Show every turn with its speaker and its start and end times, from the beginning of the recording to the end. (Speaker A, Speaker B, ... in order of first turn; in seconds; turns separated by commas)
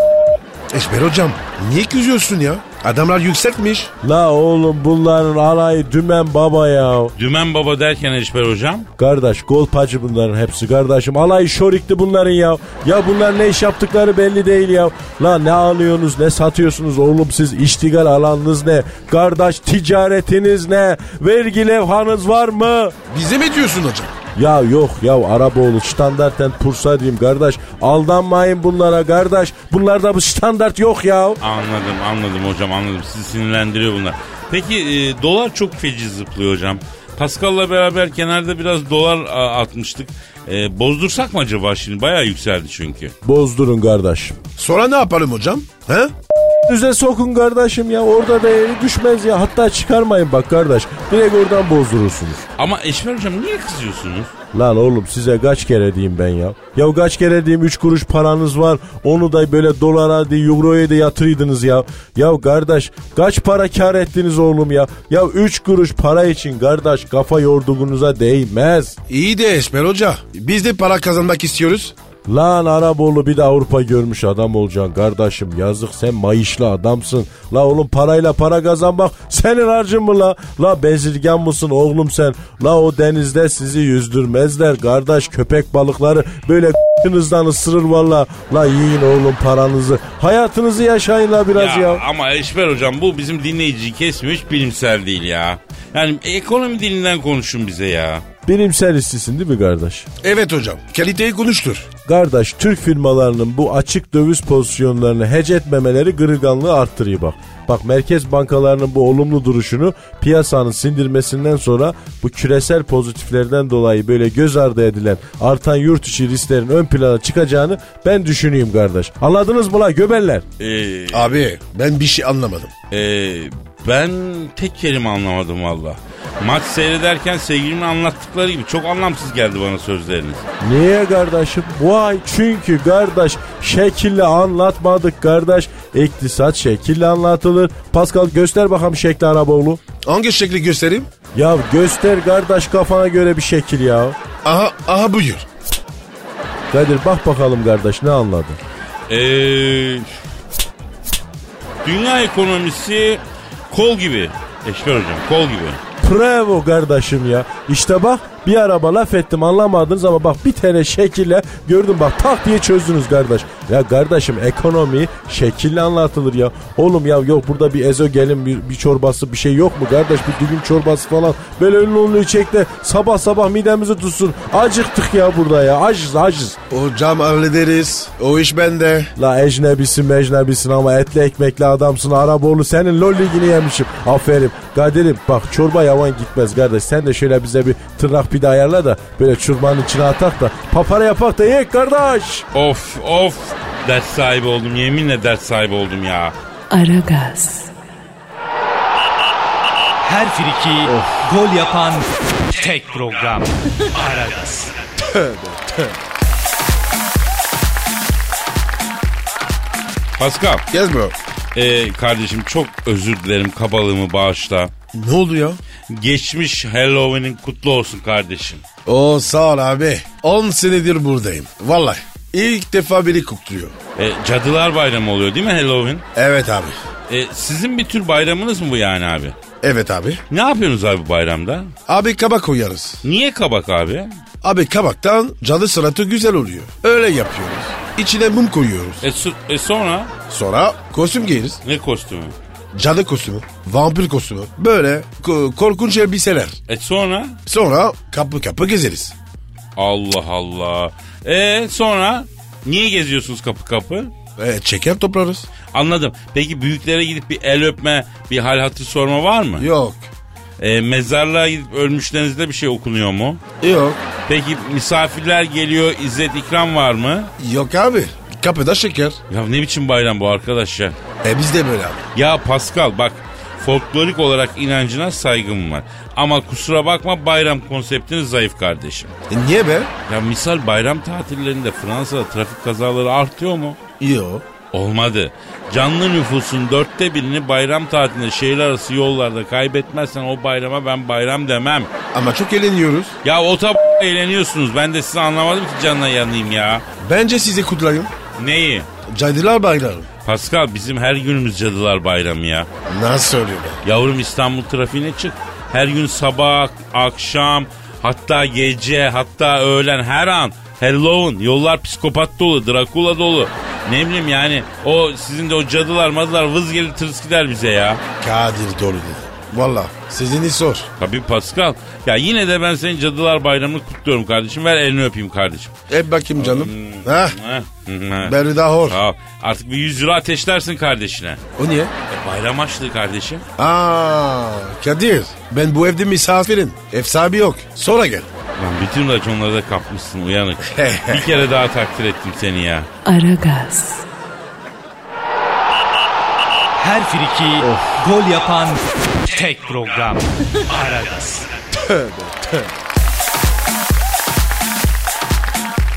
Speaker A: 0.7-3.9, Speaker B: 4.0-7.1, Speaker C: 7.2-8.9, Speaker B: 9.0-22.9, Speaker A: 23.1-24.1, Speaker B: 24.4-31.4, Speaker C: 31.4-43.1, Speaker B: 43.2-44.4, Speaker A: 44.6-46.1, Speaker B: 46.7-52.4, Speaker C: 52.6-54.3, Speaker B: 54.5-69.0, Speaker A: 69.1-71.9, Speaker B: 72.3-92.0, Speaker C: 91.5-98.2, Speaker B: 98.5-100.0, Speaker A: 100.2-101.9, Speaker B: 102.0-120.4, Speaker C: 120.6-121.4, Speaker A: 121.1-122.7, Speaker C: 122.9-130.4, Speaker B: 130.6-139.8, Speaker A: 140.0-141.1, Speaker B: 141.3-144.2, Speaker A: 144.4-145.5, Speaker B: 146.7-148.6, Speaker C: 149.1-150.1, Speaker C: 151.8-155.8, Speaker B: 156.0-176.6, Speaker A: 176.7-179.1, Speaker B: 179.2-192.4, Speaker C: 192.5-196.3, Speaker D: 196.7-197.7, Speaker E: 200.0-204.7, Speaker A: 200.9-201.2, Speaker A: 205.0-205.7, Speaker C: 210.2-210.6, Speaker A: 210.7-211.1, Speaker C: 211.5-214.7, Speaker A: 214.9-215.6, Speaker C: 215.9-218.6, Speaker A: 218.8-223.7, Speaker C: 223.9-226.0, Speaker A: 226.2-226.8, Speaker C: 227.1-229.3, Speaker A: 229.6-230.2, Speaker C: 230.3-231.7, Speaker A: 231.9-233.0, Speaker C: 233.0-234.1, Speaker A: 234.4-239.0, Speaker C: 239.0-240.1, Speaker A: 240.3-241.6, Speaker C: 241.6-242.3, Speaker A: 242.7-246.6, Speaker C: 246.7-247.4, Speaker A: 247.5-249.1, Speaker C: 249.8-254.1, Speaker A: 254.4-255.5, Speaker C: 255.7-259.7, Speaker A: 259.6-260.1, Speaker C: 260.6-263.4, Speaker A: 263.6-264.0, Speaker C: 264.3-267.3, Speaker A: 267.4-269.2, Speaker C: 269.3-270.9, Speaker A: 271.2-272.0, Speaker C: 272.1-279.1, Speaker A: 279.3-279.9, Speaker C: 280.1-283.8, Speaker A: 284.0-284.4, Speaker C: 284.7-291.9, Speaker A: 292.1-293.2, Speaker C: 293.2-296.8, Speaker A: 297.0-298.1, Speaker C: 298.4-298.9, Speaker A: 299.1-300.1, Speaker C: 300.2-302.7, Speaker A: 302.9-303.8, Speaker C: 303.8-318.0, Speaker A: 318.2-320.9, Speaker C: 321.0-325.7, Speaker A: 325.9-327.4, Speaker C: 326.4-331.4, Speaker A: 328.2-329.0, Speaker A: 331.6-331.9, Speaker C: 332.1-333.4, Speaker A: 333.6-338.3, Speaker C: 338.6-342.9, Speaker A: 340.7-341.3, Speaker D: 343.0-344.0, Speaker E: 346.8-351.5, Speaker A: 347.6-347.9, Speaker A: 351.8-352.6